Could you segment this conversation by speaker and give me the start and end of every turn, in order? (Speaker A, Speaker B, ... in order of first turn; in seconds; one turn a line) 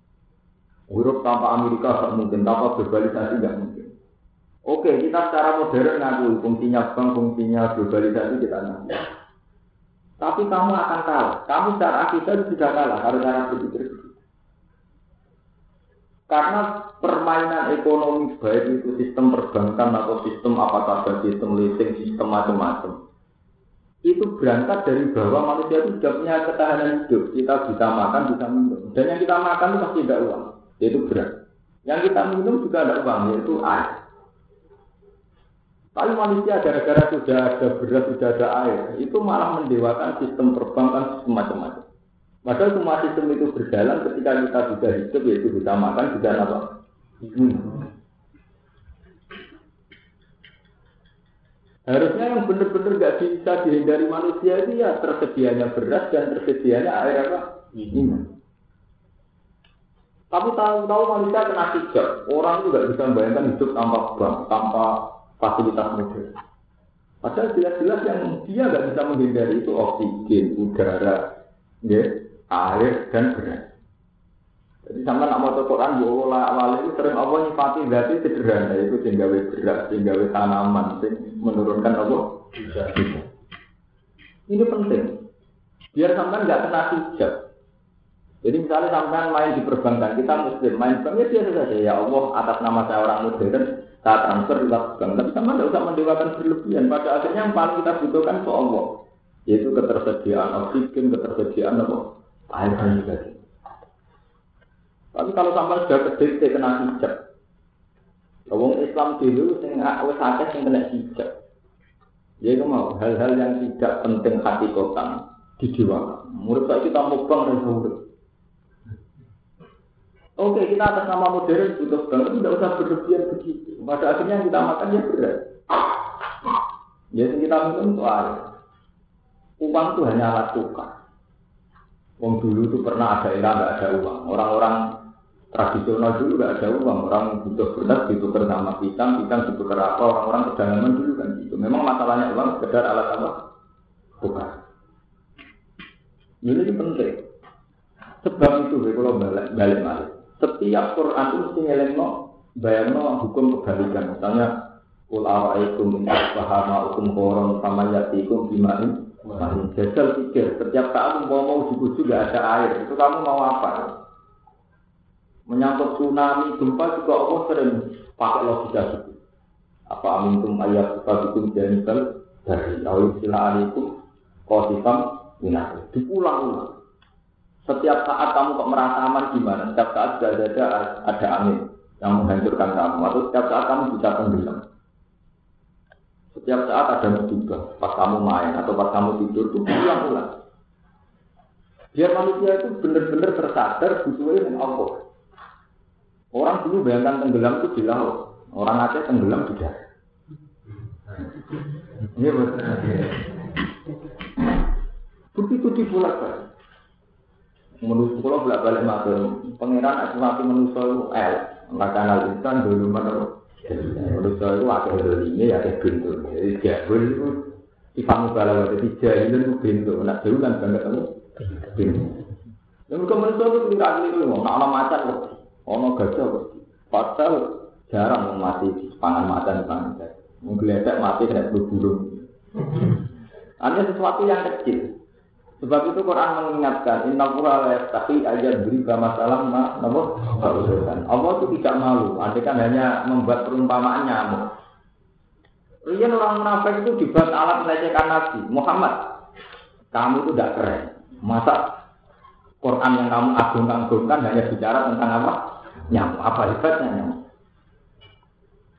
Speaker A: 0.9-4.0
Speaker A: 4.7-9.0
Speaker A: 10.2-14.2
Speaker A: 16.3-23.0
Speaker A: 24.1-34.0
Speaker A: 36.0-41.9
Speaker A: 42.5-46.7
Speaker A: 47.2-47.8
Speaker A: 51.9-58.3
Speaker A: 60.3-66.3
Speaker A: 67.2-71.2
Speaker A: 71.8-73.7
Speaker A: 74.8-83.3
Speaker A: 84.5-85.2
Speaker A: 85.9-87.4
Speaker A: 88.4-103.4
Speaker A: 105.1-107.2
Speaker A: 108.5-111.3
Speaker A: 112.4-118.0
Speaker A: 120.4-125.5
Speaker A: 127.1-128.5
Speaker A: 129.6-130.9
Speaker A: 132.2-134.9
Speaker A: 135.5-143.4
Speaker A: 144.2-144.6
Speaker A: 146.4-147.3
Speaker A: 148.2-154.5
Speaker A: 155.1-163.9
Speaker A: 165.5-169.2
Speaker A: 169.9-176.8
Speaker A: 177.7-184.7
Speaker A: 186.3-190.3
Speaker A: 191.9-195.0
Speaker A: 196.3-199.8
Speaker A: 202.1-203.3
Speaker A: 205.3-206.5
Speaker A: 207.8-222.2
Speaker A: 222.9-232.3
Speaker A: 233.6-234.9
Speaker A: 235.6-244.5
Speaker A: 245.8-249.1
Speaker A: 249.9-251.7
Speaker A: 252.6-257.2